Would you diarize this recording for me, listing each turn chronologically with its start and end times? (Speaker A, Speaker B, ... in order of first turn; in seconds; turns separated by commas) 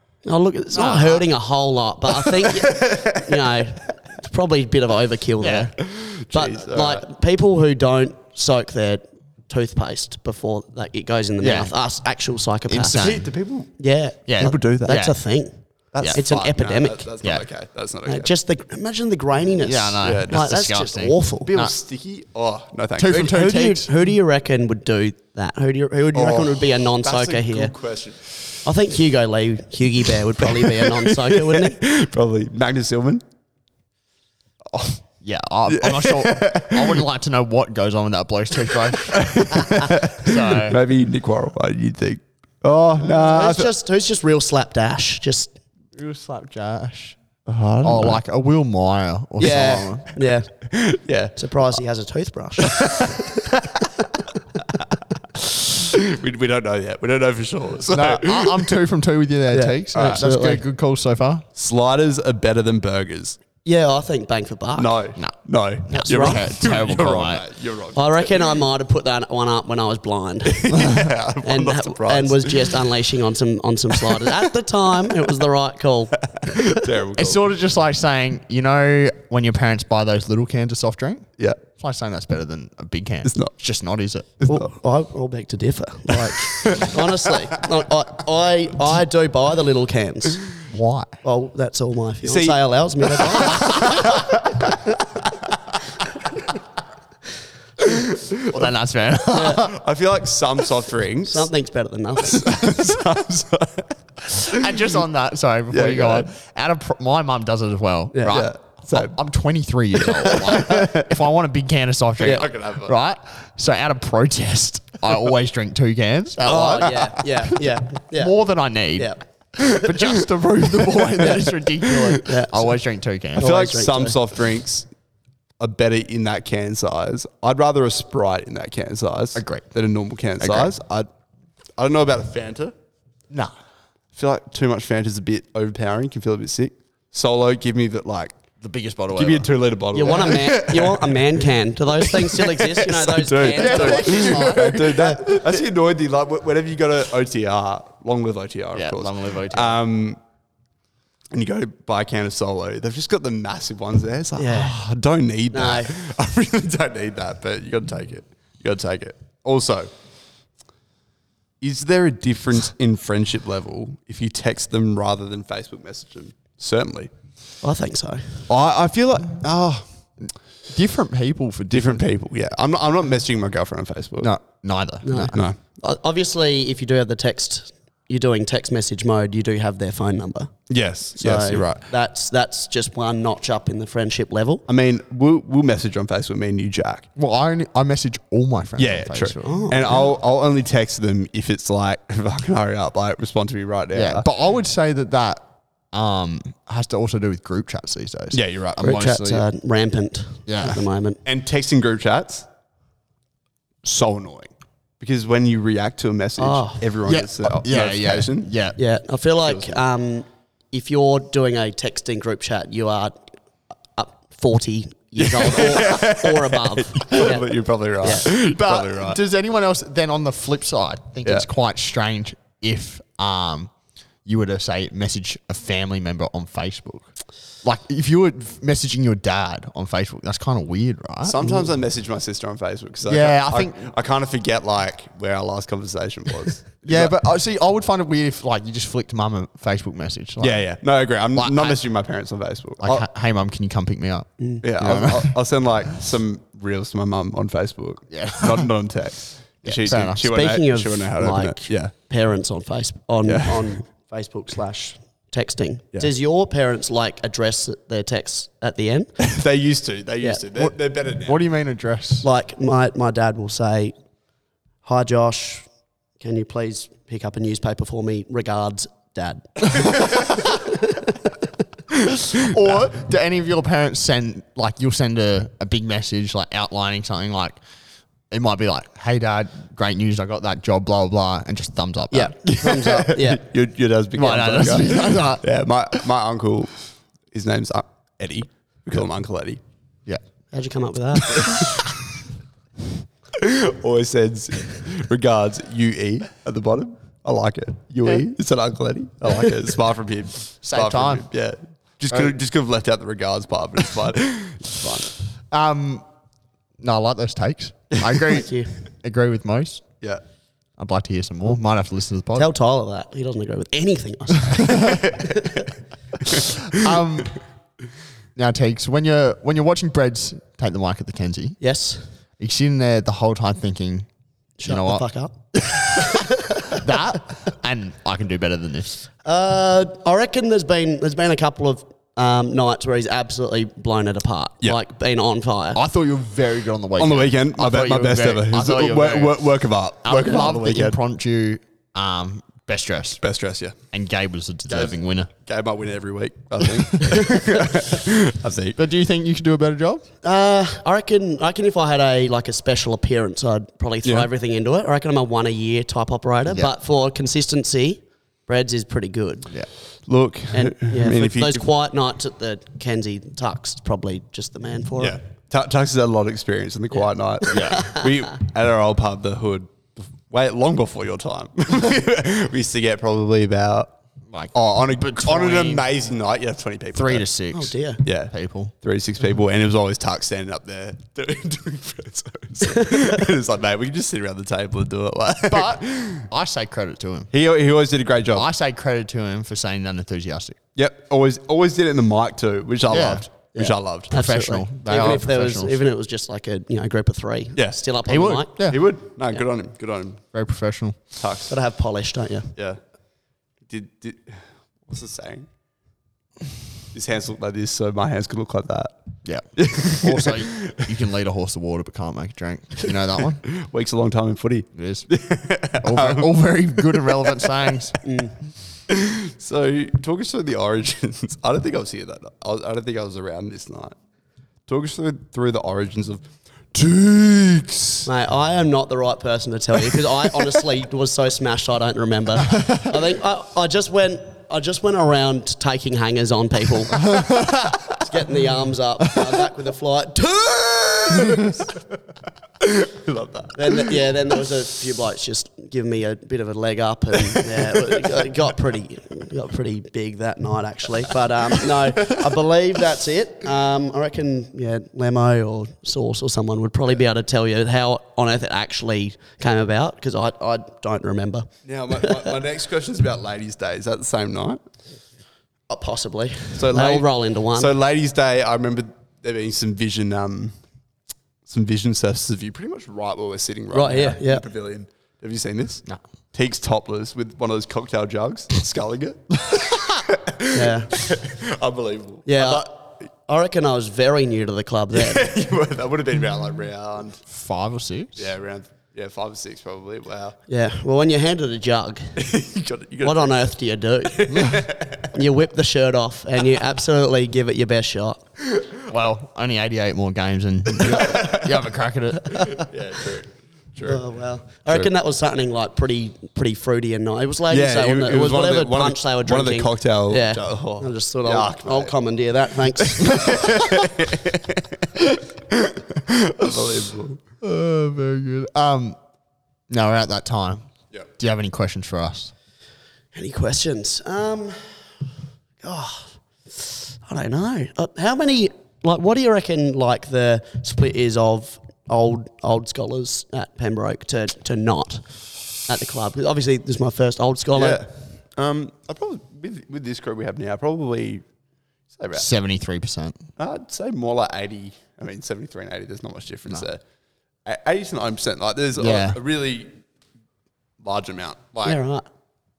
Speaker A: 0.2-5.8, Speaker B: 0.7-1.3, Speaker C: 2.4-3.6, Speaker B: 5.4-5.7, Speaker C: 5.8-7.0, Speaker A: 6.3-13.2, Speaker B: 11.4-11.7, Speaker B: 12.7-13.3, Speaker C: 12.9-13.8, Speaker A: 13.8-15.6, Speaker B: 14.3-15.2, Speaker C: 14.4-15.1, Speaker C: 15.9-18.3, Speaker B: 16.0-16.2, Speaker A: 16.1-17.1, Speaker B: 17.2-17.5, Speaker A: 18.1-21.5, Speaker B: 19.6-21.7, Speaker C: 20.0-20.5, Speaker C: 21.4-23.4, Speaker B: 23.0-23.9, Speaker A: 23.1-27.7, Speaker C: 26.1-28.4, Speaker A: 28.6-31.8, Speaker C: 30.4-33.2, Speaker C: 34.7-35.0, Speaker B: 35.2-40.8, Speaker C: 35.7-37.0, Speaker C: 39.1-43.7, Speaker A: 43.0-45.6, Speaker B: 46.0-47.2, Speaker C: 47.5-48.2, Speaker B: 47.8-50.1, Speaker A: 49.4-50.5, Speaker C: 50.7-51.4, Speaker A: 51.4-53.6, Speaker C: 52.6-53.9, Speaker C: 55.5-58.8, Speaker B: 57.9-61.4, Speaker A: 59.5-60.6, Speaker C: 60.0-60.2, Speaker C: 61.6-63.4, Speaker A: 63.6-64.9, Speaker C: 64.8-68.6, Speaker B: 65.9-67.5, Speaker A: 65.9-66.4, Speaker A: 68.0-76.7, Speaker C: 70.5-72.9, Speaker C: 76.2-77.4, Speaker B: 77.2-84.3, Speaker C: 83.2-83.5, Speaker C: 84.4-84.7, Speaker A: 84.5-90.5, Speaker C: 86.4-87.1, Speaker B: 90.7-91.2, Speaker A: 91.2-94.7, Speaker C: 92.2-95.0, Speaker B: 93.6-94.0, Speaker C: 97.8-98.7, Speaker B: 98.5-99.8, Speaker A: 99.3-99.7, Speaker C: 99.5-101.5, Speaker A: 101.3-102.6, Speaker C: 102.2-104.9, Speaker B: 104.3-123.5, Speaker C: 105.7-106.3, Speaker A: 108.1-108.5, Speaker C: 108.3-109.2, Speaker C: 110.0-111.1, Speaker C: 112.2-113.0, Speaker A: 116.4-118.4, Speaker C: 119.6-122.2, Speaker A: 122.2-122.6, Speaker A: 123.4-124.2, Speaker C: 123.4-124.9, Speaker C: 125.6-131.1, Speaker B: 129.3-129.7, Speaker B: 130.4-130.7, Speaker C: 131.8-132.7, Speaker C: 134.2-138.4, Speaker B: 138.6-139.5, Speaker C: 139.2-141.5, Speaker A: 139.9-145.4, Speaker C: 142.0-150.2, Speaker B: 143.5-145.2, Speaker B: 148.7-149.8, Speaker C: 151.3-159.9, Speaker A: 154.4-154.7, Speaker A: 155.5-155.9, Speaker C: 161.6-167.1, Speaker A: 167.6-168.5, Speaker C: 168.5-169.8, Speaker B: 170.2-172.1, Speaker C: 171.7-174.3, Speaker B: 174.2-175.4, Speaker A: 175.0-180.5, Speaker C: 175.3-175.6, Speaker C: 180.7-181.8, Speaker A: 181.2-184.6, Speaker C: 184.7-187.1, Speaker B: 187.2-189.6, Speaker C: 188.8-194.3, Speaker A: 189.4-190.1, Speaker B: 193.9-199.4, Speaker C: 198.3-199.2, Speaker A: 198.8-201.2, Speaker B: 200.5-200.8, Speaker C: 201.2-202.5, Speaker C: 203.8-208.5, Speaker A: 206.4-206.8, Speaker B: 207.1-208.8, Speaker A: 208.8-213.3, Speaker C: 209.5-209.8, Speaker A: 214.0-218.3, Speaker C: 215.2-219.2, Speaker B: 218.1-223.7, Speaker B: 224.2-227.1, Speaker B: 227.6-231.7, Speaker C: 231.2-237.2, Speaker B: 233.1-233.9, Speaker B: 236.8-240.6, Speaker C: 240.4-243.1, Speaker B: 241.3-241.8, Speaker B: 242.8-245.3, Speaker C: 244.6-251.9, Speaker B: 248.1-248.7, Speaker B: 249.6-250.3, Speaker A: 250.3-259.1, Speaker C: 253.2-253.8, Speaker C: 259.2-261.4, Speaker B: 260.5-262.3, Speaker A: 262.2-263.9, Speaker A: 264.8-265.7, Speaker A: 266.2-271.1, Speaker B: 272.3-277.6, Speaker B: 278.3-282.4, Speaker A: 282.1-283.4, Speaker C: 282.5-286.8, Speaker B: 284.2-285.4, Speaker C: 287.3-289.6, Speaker A: 290.5-291.7, Speaker C: 291.4-291.7, Speaker C: 293.4-305.1, Speaker B: 300.6-301.3, Speaker B: 305.5-306.1, Speaker B: 306.8-309.9, Speaker A: 308.3-308.7, Speaker B: 310.8-312.5, Speaker A: 312.4-315.6, Speaker C: 314.8-315.5, Speaker C: 316.4-316.9, Speaker B: 316.6-317.4, Speaker B: 318.4-321.6, Speaker A: 321.6-322.0, Speaker B: 322.4-324.1, Speaker A: 324.6-325.4, Speaker B: 324.6-325.0, Speaker A: 325.9-326.8, Speaker B: 326.7-329.1, Speaker A: 329.2-335.8, Speaker B: 335.8-339.5, Speaker C: 337.0-341.0, Speaker B: 340.0-343.2, Speaker C: 343.2-343.8, Speaker B: 343.9-345.3, Speaker C: 344.7-348.8, Speaker B: 348.8-350.1, Speaker A: 350.2-359.5, Speaker C: 360.1-361.6, Speaker A: 360.5-365.2, Speaker C: 365.0-373.9, Speaker A: 367.5-368.1, Speaker B: 367.5-367.9, Speaker B: 374.3-375.9, Speaker C: 374.5-377.3, Speaker B: 376.9-377.8, Speaker A: 377.5-378.0, Speaker C: 378.1-386.3, Speaker B: 378.3-378.7, Speaker B: 385.5-387.3, Speaker C: 387.3-388.5, Speaker B: 388.3-390.6, Speaker C: 390.8-394.1, Speaker B: 392.9-393.3, Speaker A: 393.6-398.5, Speaker B: 394.1-395.8, Speaker B: 398.1-398.8, Speaker C: 398.6-400.2, Speaker B: 400.3-401.0, Speaker C: 401.2-401.5, Speaker A: 401.5-402.5, Speaker C: 403.7-405.5, Speaker C: 406.9-409.0, Speaker B: 409.2-413.4, Speaker C: 409.6-410.9, Speaker C: 413.5-417.5, Speaker B: 414.8-415.1, Speaker B: 415.8-418.0, Speaker A: 418.0-418.4, Speaker C: 418.9-423.9, Speaker C: 424.7-428.1, Speaker A: 428.1-441.6, Speaker B: 437.1-437.7, Speaker C: 441.1-441.5, Speaker C: 442.6-444.0, Speaker A: 443.6-461.5, Speaker C: 447.4-448.3, Speaker C: 461.6-464.6, Speaker A: 462.0-462.3, Speaker A: 465.7-467.7, Speaker C: 466.6-470.6, Speaker C: 471.5-482.7, Speaker A: 473.7-474.4, Speaker A: 480.5-480.9, Speaker A: 482.3-485.3, Speaker C: 484.9-487.2, Speaker B: 487.3-488.3, Speaker C: 488.2-490.4, Speaker A: 490.5-492.2, Speaker C: 492.2-493.5, Speaker A: 493.0-498.2, Speaker C: 494.1-495.1, Speaker B: 498.9-502.6, Speaker C: 500.8-501.6, Speaker C: 502.4-504.0, Speaker A: 503.8-513.6, Speaker C: 507.5-511.9, Speaker C: 512.8-517.2, Speaker B: 517.4-519.0, Speaker B: 519.7-520.7, Speaker B: 521.2-522.3, Speaker A: 523.1-524.9, Speaker A: 525.6-535.1, Speaker A: 535.6-537.8, Speaker C: 537.5-541.2, Speaker C: 542.0-542.3, Speaker B: 542.1-543.2, Speaker C: 543.4-546.8, Speaker C: 547.5-549.7, Speaker B: 548.8-549.2, Speaker C: 550.8-551.7, Speaker A: 551.6-552.1